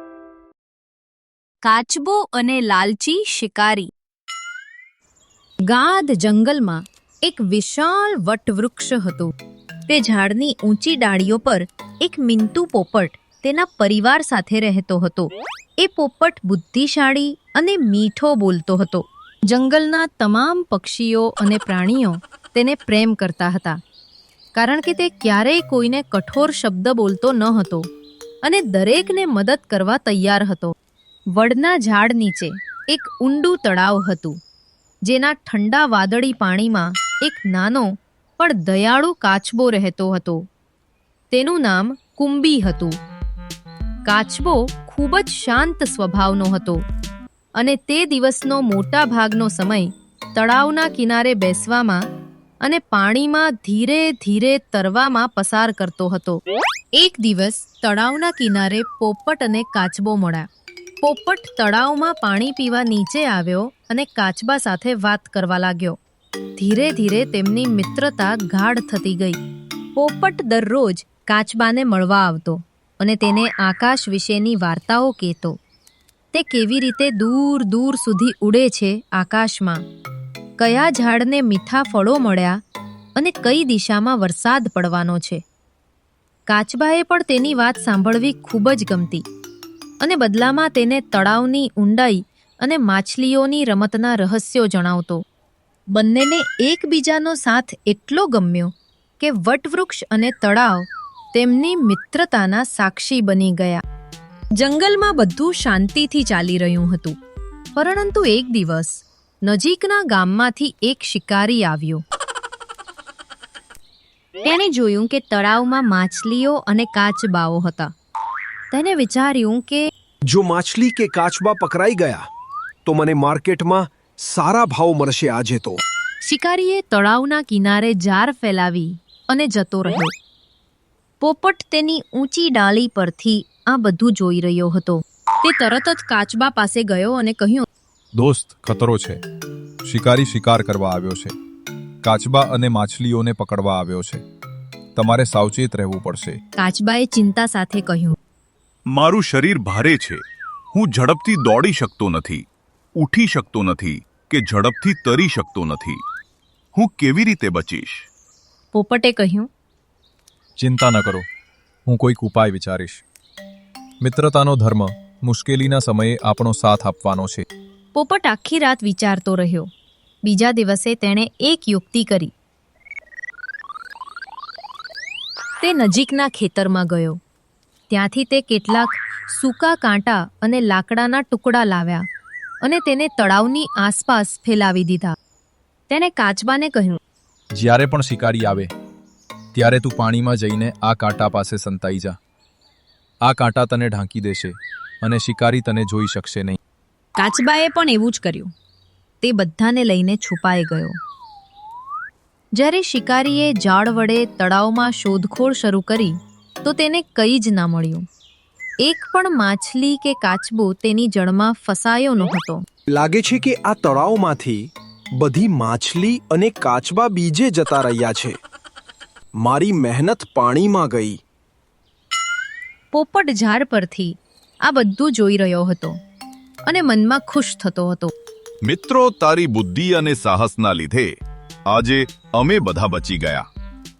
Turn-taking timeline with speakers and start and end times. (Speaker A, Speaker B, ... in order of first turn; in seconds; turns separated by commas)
Speaker A: 1.6-3.9, Speaker A: 5.7-9.3, Speaker A: 9.9-23.8, Speaker A: 24.5-27.9, Speaker A: 28.4-30.7, Speaker A: 31.3-34.4, Speaker A: 35.0-40.4, Speaker A: 41.3-42.9, Speaker A: 44.0-46.8, Speaker A: 47.6-52.0, Speaker A: 52.6-56.4, Speaker A: 57.0-60.5, Speaker A: 61.0-66.0, Speaker A: 66.6-69.4, Speaker A: 70.0-75.6, Speaker A: 76.3-79.8, Speaker A: 80.6-82.6, Speaker A: 83.2-85.4, Speaker A: 86.5-89.2, Speaker A: 90.0-95.2, Speaker A: 95.9-103.8, Speaker A: 104.6-107.2, Speaker A: 107.8-112.0, Speaker A: 114.4-117.9, Speaker A: 118.7-119.9, Speaker B: 120.3-122.2, Speaker B: 122.8-125.8, Speaker A: 126.2-130.1, Speaker A: 131.2-137.7, Speaker C: 138.1-139.2, Speaker C: 139.8-141.3, Speaker C: 142.0-144.2, Speaker C: 144.9-146.4, Speaker A: 146.6-148.2, Speaker D: 148.9-150.2, Speaker D: 150.7-152.4, Speaker D: 153.0-156.0, Speaker D: 156.7-158.1, Speaker A: 158.7-159.5, Speaker C: 160.6-161.2, Speaker C: 161.8-163.0, Speaker C: 164.0-167.4, Speaker A: 167.9-169.7, Speaker A: 170.2-172.3, Speaker A: 175.6-177.2, Speaker A: 177.9-182.0, Speaker A: 182.6-185.1, Speaker A: 185.9-187.0, Speaker C: 187.5-188.7, Speaker C: 189.5-192.2, Speaker C: 193.2-196.6, Speaker A: 197.2-198.5, Speaker A: 199.2-200.9, Speaker A: 202.5-208.0, Speaker A: 208.8-212.6, Speaker B: 212.9-218.3, Speaker B: 219.4-221.2, Speaker A: 222.9-226.0, Speaker A: 226.7-228.1, Speaker D: 228.7-231.1, Speaker D: 231.7-233.4